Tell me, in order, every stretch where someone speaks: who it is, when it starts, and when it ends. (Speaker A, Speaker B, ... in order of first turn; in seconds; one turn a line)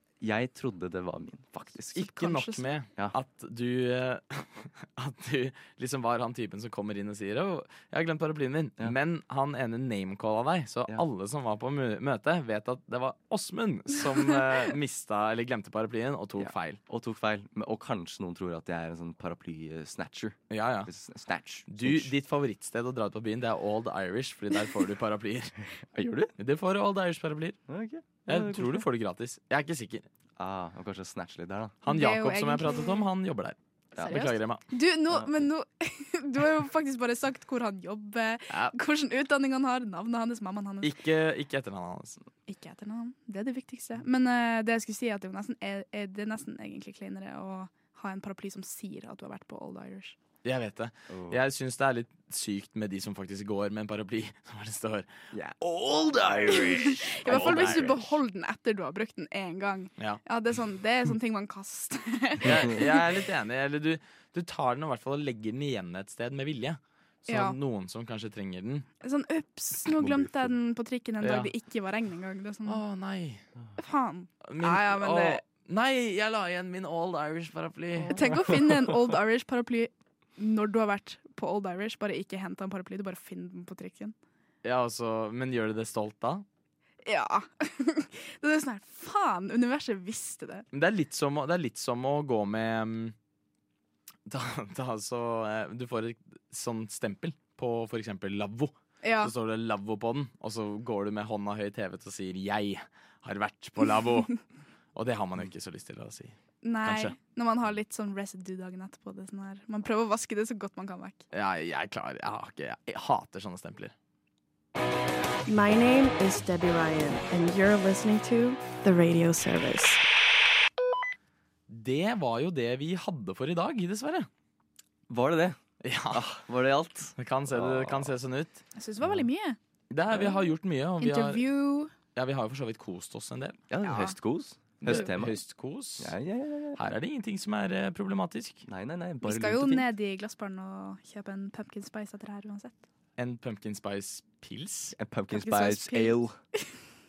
Speaker A: 0.2-2.0
Speaker B: 1.9-16.8
Speaker C: 2.0-2.6
Speaker A: 16.4-22.1
Speaker B: 20.5-20.9
Speaker B: 21.7-25.6
Speaker A: 25.9-26.3
Speaker B: 26.4-27.6
Speaker A: 27.7-28.8
Speaker B: 28.3-30.1
Speaker A: 30.4-31.8
Speaker C: 31.9-33.1
Speaker B: 31.9-34.6
Speaker C: 34.0-41.0
Speaker A: 35.1-35.4
Speaker B: 40.8-42.2
Speaker C: 42.5-50.1
Speaker B: 50.4-58.1
Speaker A: 51.1-51.4
Speaker A: 55.3-58.0
Speaker C: 56.5-63.0
Speaker B: 62.4-68.8
Speaker C: 67.3-67.6
Speaker C: 69.0-72.8
Speaker A: 69.9-70.5
Speaker B: 71.2-71.5
Speaker B: 72.7-73.4
Speaker C: 73.8-75.4
Speaker B: 74.5-78.6
Speaker C: 78.0-84.1
Speaker A: 78.2-78.5
Speaker B: 84.6-86.4
Speaker C: 87.0-90.7
Speaker B: 90.7-93.1
Speaker B: 94.3-104.4
Speaker C: 99.0-99.3
Speaker B: 104.9-107.1
Speaker C: 106.6-111.2
Speaker B: 111.3-113.9
Speaker D: 115.5-120.0
Speaker B: 121.7-124.3
Speaker A: 125.1-125.6
Speaker B: 125.8-126.3
Speaker A: 126.1-128.1
Speaker B: 127.2-128.6
Speaker C: 128.8-129.6
Speaker B: 129.9-131.4
Speaker C: 130.1-131.9
Speaker B: 132.1-133.6
Speaker A: 133.7-135.4
Speaker C: 133.8-134.2
Speaker B: 134.8-136.1
Speaker A: 136.0-136.8
Speaker B: 136.8-138.6
Speaker A: 138.7-139.9
Speaker C: 139.2-142.8
Speaker B: 143.2-144.9
Speaker A: 144.9-146.3
Speaker C: 145.3-146.2